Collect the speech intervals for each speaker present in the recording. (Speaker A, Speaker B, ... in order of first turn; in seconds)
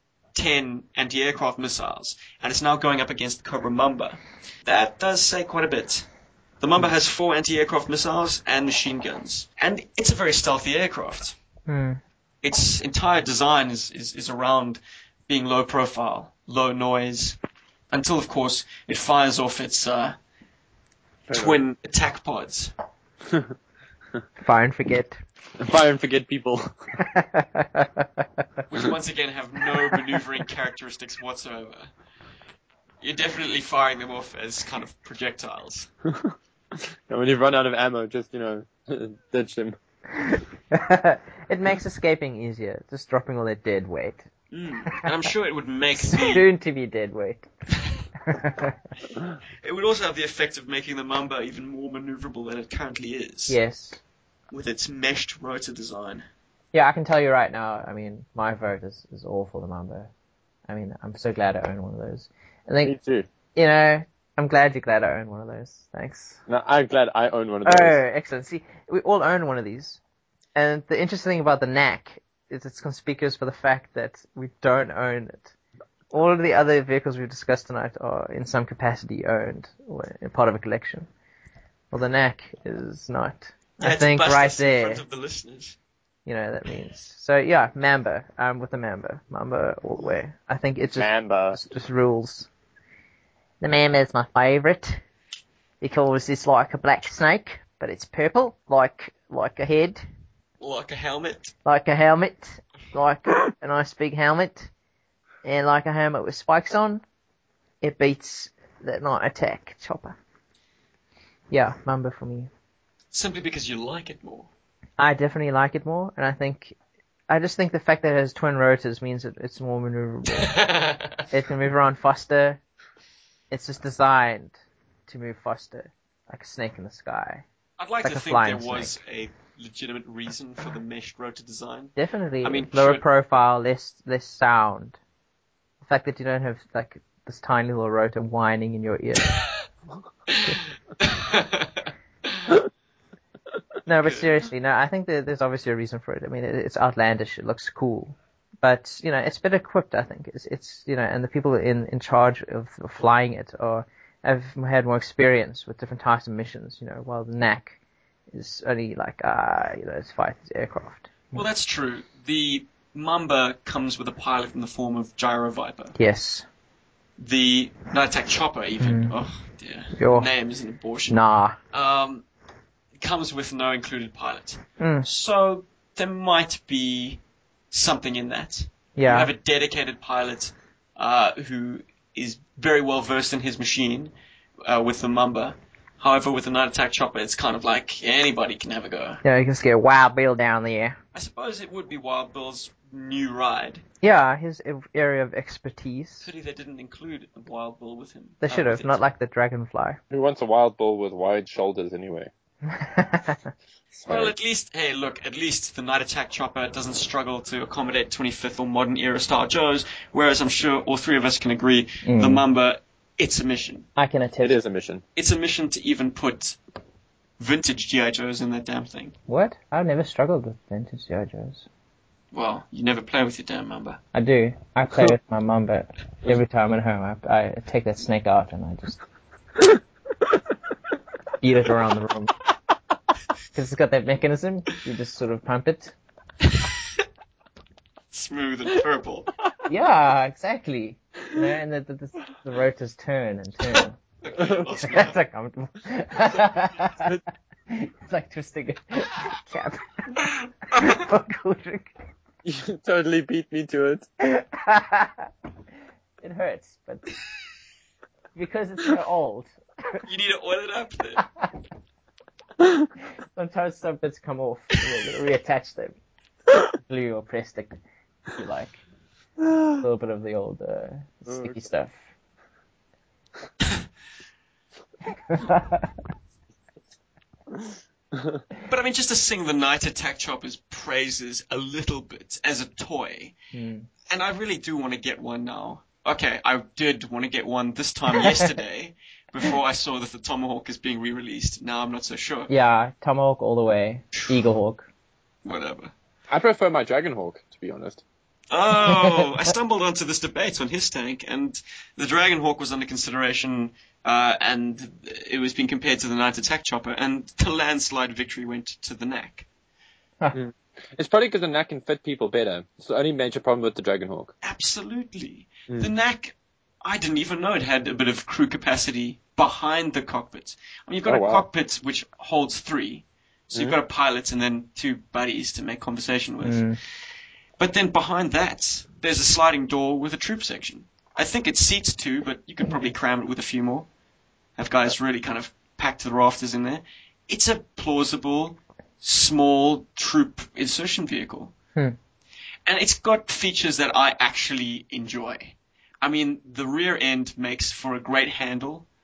Speaker A: 0.3-6.0, 6.6-11.3, 12.4-17.4, 17.9-20.2, 21.3-22.7, 28.7-31.9, 33.0-35.9, 44.5-46.5, 49.6-53.5, 54.5-56.2, 83.8-85.8, 100.6-101.5, 113.1-114.5, 120.3-121.2, 127.8-133.0, 140.3-142.6, 161.3-165.9, 167.2-171.2, 171.7-172.2, 173.0-177.2, 177.7-184.1, 184.6-189.2, 191.1-193.8, 196.2-199.0, 204.1-213.9, 215.2-216.6, 217.4-219.1, 222.3-224.0, 238.1-239.3, 243.7-245.2, 260.0-261.2, 278.6-283.3, 284.1-292.5, 295.4-295.9, 298.5-309.4, 314.4-326.7, 327.6-333.9, 334.6-341.5, 342.7-348.9
Speaker B: 11.7-12.0, 24.4-25.2, 27.0-28.0, 40.2-44.3, 46.0-47.5, 48.2-48.7, 53.5-54.0, 56.7-60.1, 60.7-62.9, 63.5-66.4, 67.6-70.0, 70.5-75.5, 76.1-81.1, 81.9-85.0, 86.2-92.5, 93.6-95.0, 95.8-100.0, 101.6-104.7, 105.4-107.0, 107.8-110.2, 111.5-112.5, 115.0-116.8, 117.3-120.5, 121.3-122.6, 123.5-124.5, 125.1-127.4, 128.0-129.0, 131.9-135.0, 135.8-139.4, 143.8-157.8, 158.3-161.4, 166.0-166.4, 168.8-169.2, 169.9-170.3, 171.1-171.6, 174.8-175.1, 179.0-179.3, 189.2-191.0, 194.0-196.3, 198.4-200.0, 202.7-203.5, 212.0-212.4, 214.0-214.6, 219.3-221.7, 224.1-229.0, 231.4-232.3, 233.5-235.9, 239.7-243.9, 244.8-247.2, 247.7-251.9, 254.2-255.3, 256.2-257.1, 258.3-260.0, 263.4-265.9, 266.7-267.8, 268.3-268.8, 269.8-272.0, 275.3-275.9, 283.5-283.9, 292.5-294.9, 326.4-326.8
Speaker C: 21.3-21.6, 25.6-26.9, 36.1-39.8, 62.8-63.3, 66.5-68.0, 91.0-91.6, 200.1-202.3, 204.0-204.3, 214.4-215.0, 252.4-254.1, 278.1-278.4, 296.3-298.0, 310.3-314.3, 321.1-321.4